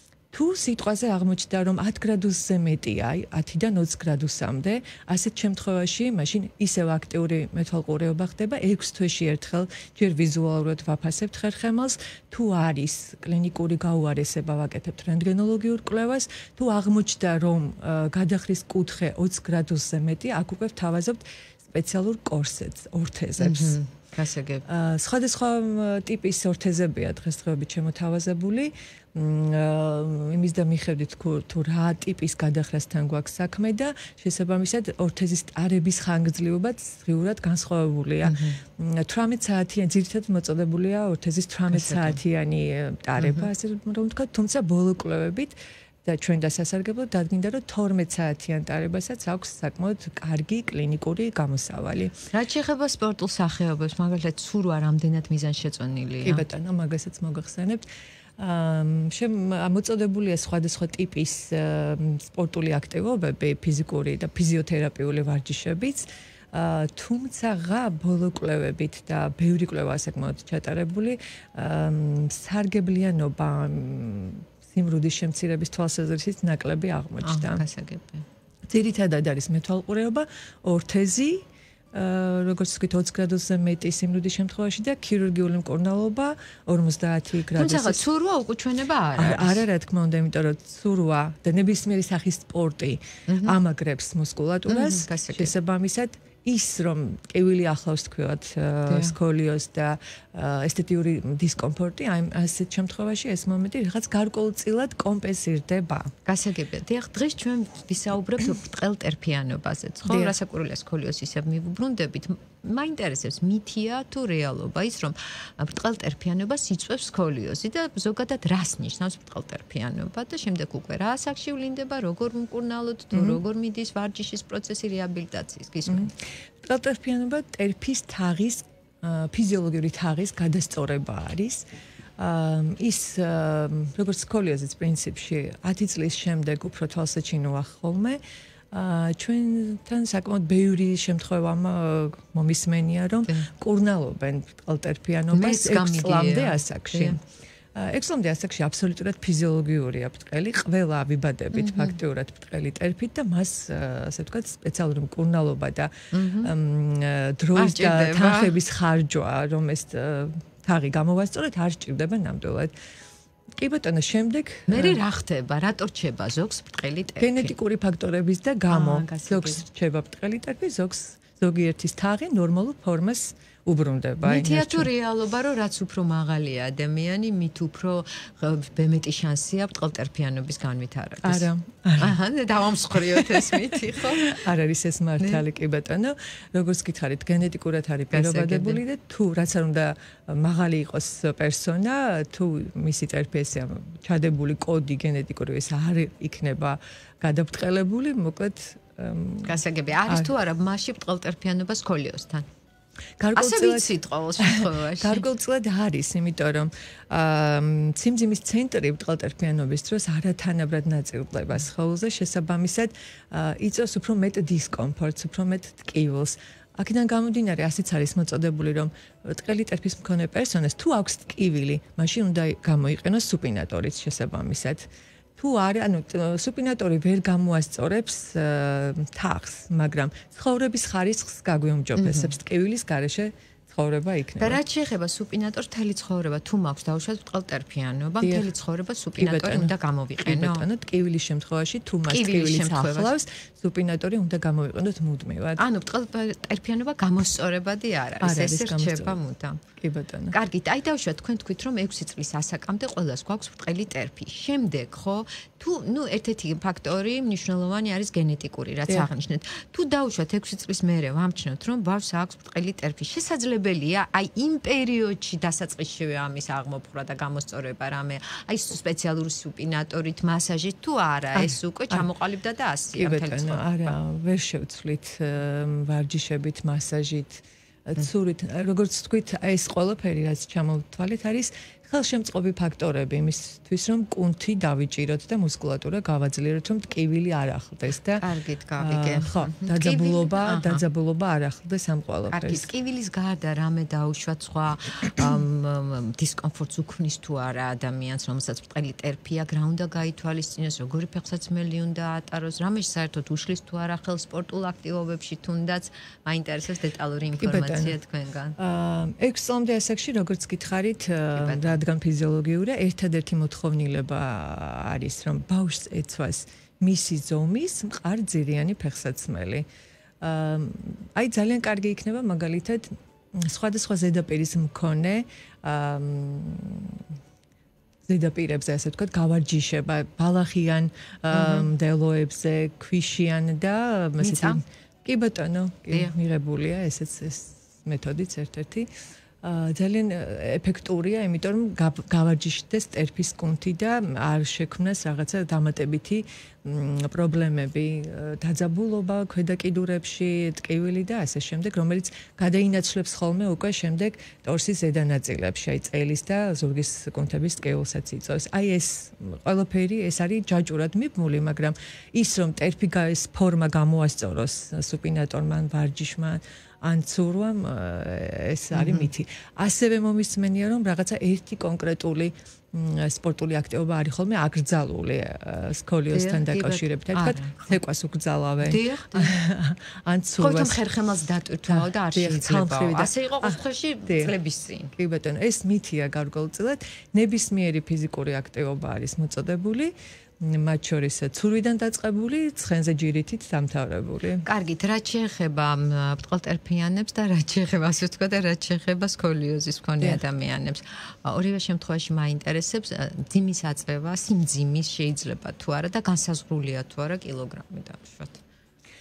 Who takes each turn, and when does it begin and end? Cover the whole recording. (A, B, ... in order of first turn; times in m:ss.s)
0:00.3-0:23.8 A
0:23.4-0:24.6 B
0:24.6-0:52.1 A
0:38.2-0:38.6 B
0:41.7-0:42.2 B
0:43.2-0:43.5 B
0:52.3-0:56.4 B
0:56.2-0:57.8 A
0:58.4-1:17.6 A
1:17.2-1:18.2 B
1:18.7-1:28.0 A
1:27.5-1:29.6 B
1:29.2-1:46.1 A
1:33.3-1:33.6 B
1:34.7-1:35.5 B
1:38.9-1:39.2 B
1:46.2-2:06.1 B
1:50.0-1:50.3 A
2:03.1-2:03.4 A
2:05.8-2:11.6 A
2:12.2-2:18.2 A
2:18.7-2:27.2 A
2:25.3-2:27.2 B
2:27.7-2:42.7 A
2:31.5-2:32.0 B
2:36.1-2:36.5 B
2:37.5-2:38.6 B
2:43.6-2:45.0 A
2:44.7-2:47.5 B
2:47.2-2:54.9 A
2:48.7-2:49.6 B
2:54.2-3:04.4 B
3:01.2-3:02.2 A
3:03.1-3:03.6 A
3:04.2-3:20.3 A
3:05.2-3:05.4 B
3:08.1-3:08.8 B
3:19.4-3:22.4 B
3:23.2-3:54.6 A
3:23.3-3:25.2 B
3:52.0-3:52.3 B
3:54.4-4:00.7 B
3:58.2-3:58.5 A
3:59.2-4:05.6 A
4:02.1-4:03.1 B
4:05.6-4:09.6 B
4:08.2-4:09.2 A
4:09.8-4:10.4 A
4:10.3-4:33.9 B
4:31.3-4:32.1 A
4:32.9-4:48.2 A
4:48.2-4:50.8 B
4:48.8-4:52.7 A
4:52.3-5:08.6 B
5:07.4-5:08.0 A
5:08.6-5:19.6 A
5:11.3-5:11.8 B
5:20.2-5:27.0 A
5:28.0-5:38.9 A
5:31.3-5:31.6 B
5:34.2-5:34.6 B
5:39.4-6:20.8 A
6:08.7-6:09.1 B
6:16.1-6:17.8 B
6:18.6-6:19.4 B
6:20.4-6:24.9 B
6:21.7-6:24.3 A
6:24.9-6:34.4 A
6:34.4-6:48.4 B
6:40.0-6:40.2 A